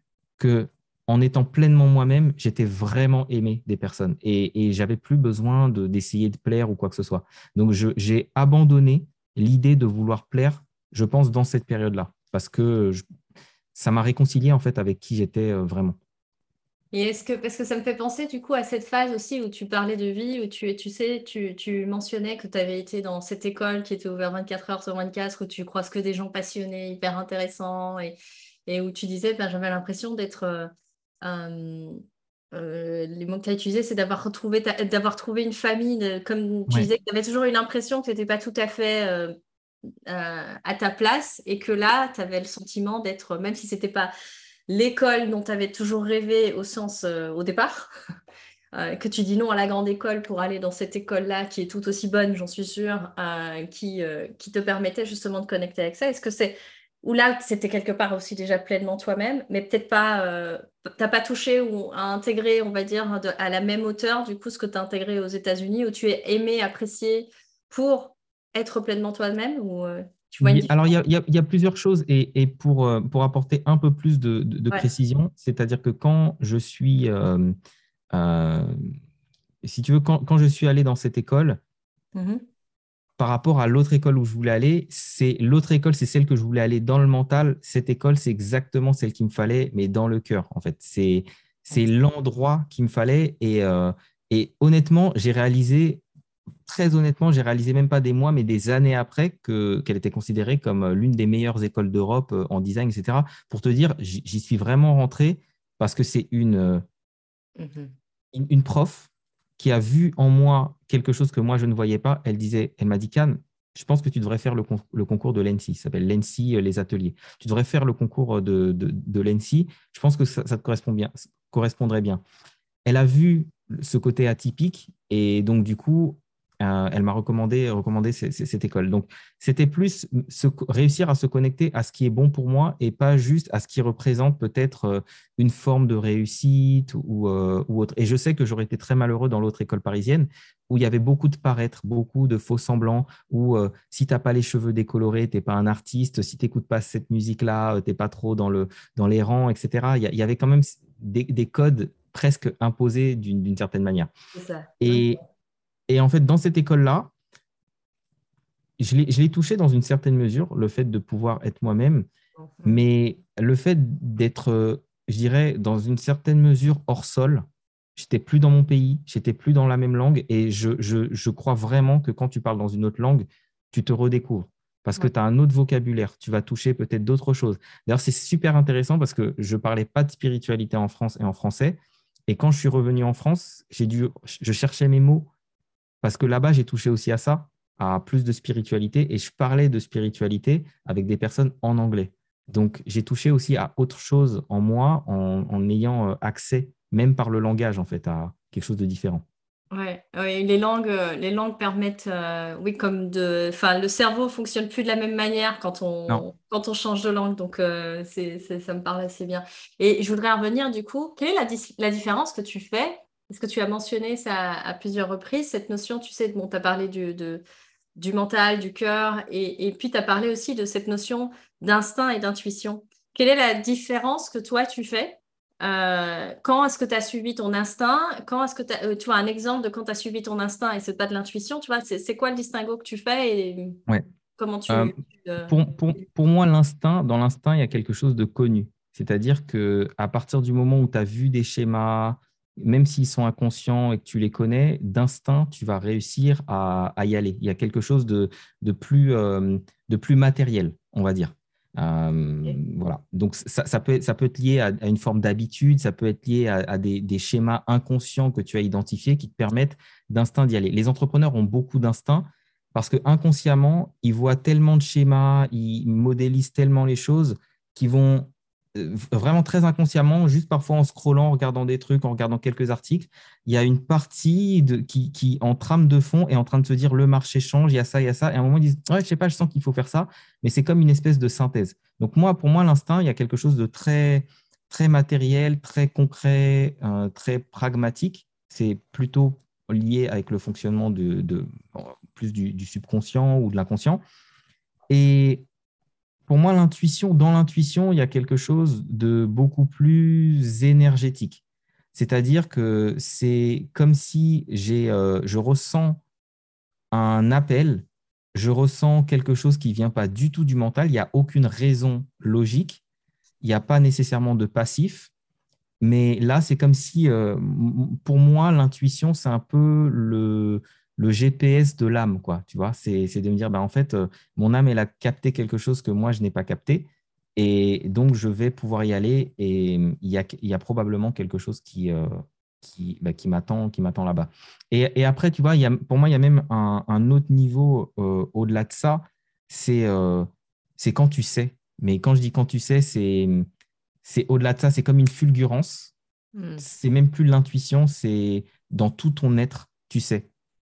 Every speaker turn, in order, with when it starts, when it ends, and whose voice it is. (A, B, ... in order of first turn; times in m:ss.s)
0:00.4-0:13.0 A
0:13.7-0:16.0 A
0:16.9-0:28.1 B
0:28.7-0:30.7 B
0:31.2-0:32.0 B
0:32.5-0:39.3 B
0:40.1-0:44.1 B
0:44.7-0:47.9 B
0:48.7-1:10.9 B
1:10.4-1:17.5 A
1:18.1-1:18.7 A
1:19.6-1:21.6 A
1:22.1-1:22.4 B
1:23.2-1:36.0 A
1:36.6-1:46.8 A
1:47.6-1:47.9 B
1:48.3-2:02.2 A
2:02.8-2:34.1 A
2:34.3-2:35.2 B
2:34.8-2:35.2 A
2:35.9-2:37.1 A
2:38.8-2:42.1 A
2:42.4-2:42.8 B
2:42.6-2:47.4 A
2:48.0-3:05.3 A
3:06.0-3:19.2 A
3:19.7-3:37.4 B
3:38.0-3:53.8 B
3:54.4-3:55.7 B
3:54.7-3:54.9 A
3:55.5-4:54.0 A
4:54.9-4:55.4 A
4:56.3-5:01.4 A
5:01.9-5:06.0 A
5:06.9-5:12.8 A
5:13.4-5:15.1 A
5:15.8-5:32.1 A
5:32.6-5:43.5 A
5:44.0-5:45.9 A
5:46.4-5:46.6 B
5:46.6-5:50.3 A